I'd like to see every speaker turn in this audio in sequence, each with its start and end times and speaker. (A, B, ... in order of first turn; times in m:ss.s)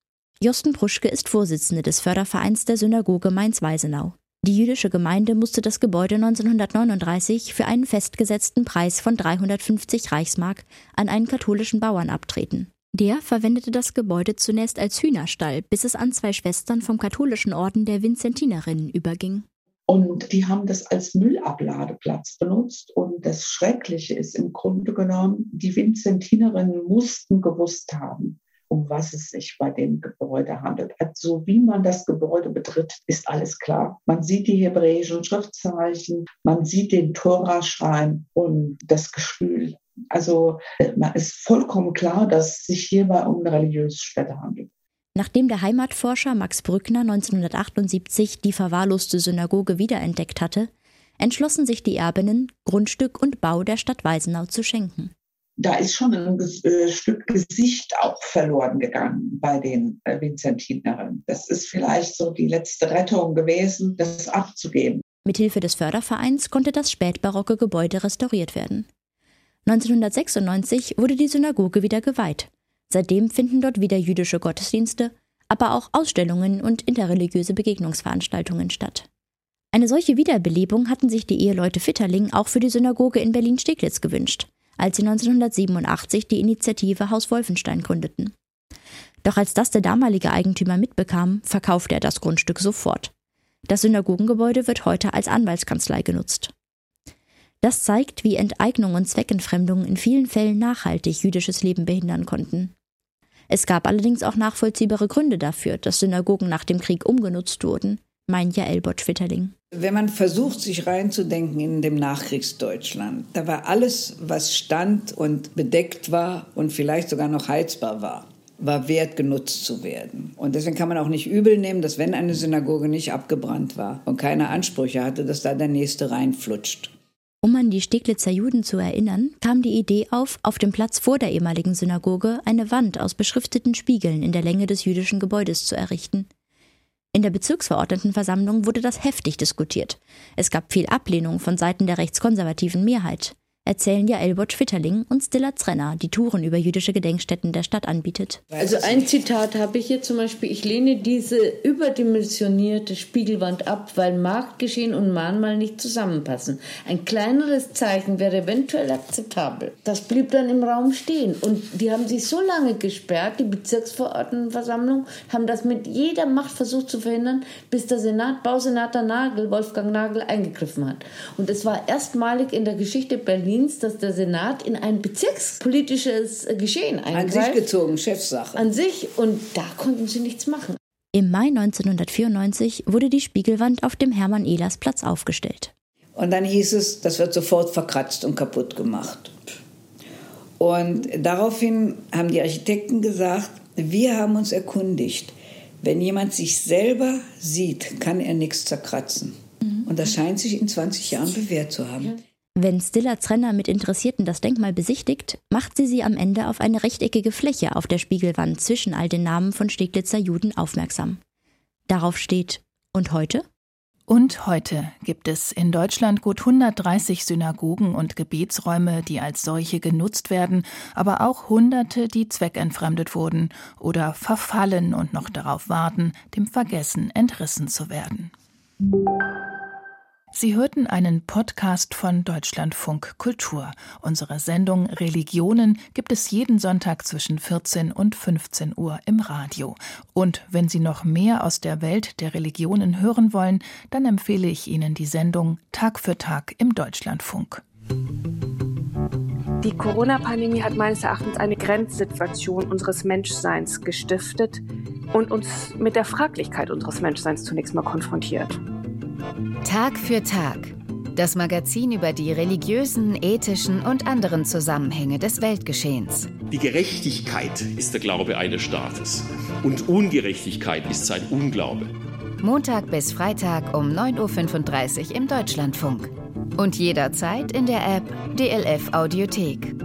0:00.4-0:19.5 A
0:19.9-0:44.7 B
0:45.2-0:55.1 A
0:55.6-1:05.0 B
1:05.3-1:08.9 A
1:09.7-1:19.1 A
1:19.7-1:28.3 A
1:29.2-1:33.1 A
1:33.7-1:36.5 A
1:37.6-1:42.7 A
1:43.5-1:49.5 A
1:49.7-2:06.9 C
2:07.4-2:16.3 A
2:17.1-2:28.4 A
2:28.5-2:29.1 C
2:28.6-2:57.7 D
2:57.1-2:58.7 C
2:58.6-3:00.8 D
3:01.2-3:05.7 A
3:06.2-3:09.4 C
3:10.6-3:22.2 C
3:22.6-3:31.2 A
3:31.9-3:33.4 A
3:34.1-3:48.3 E
3:50.3-4:07.6 E
4:09.6-4:14.6 F
4:15.1-4:18.6 F
4:19.6-4:26.3 G
4:26.5-4:31.9 H
4:32.4-4:39.7 G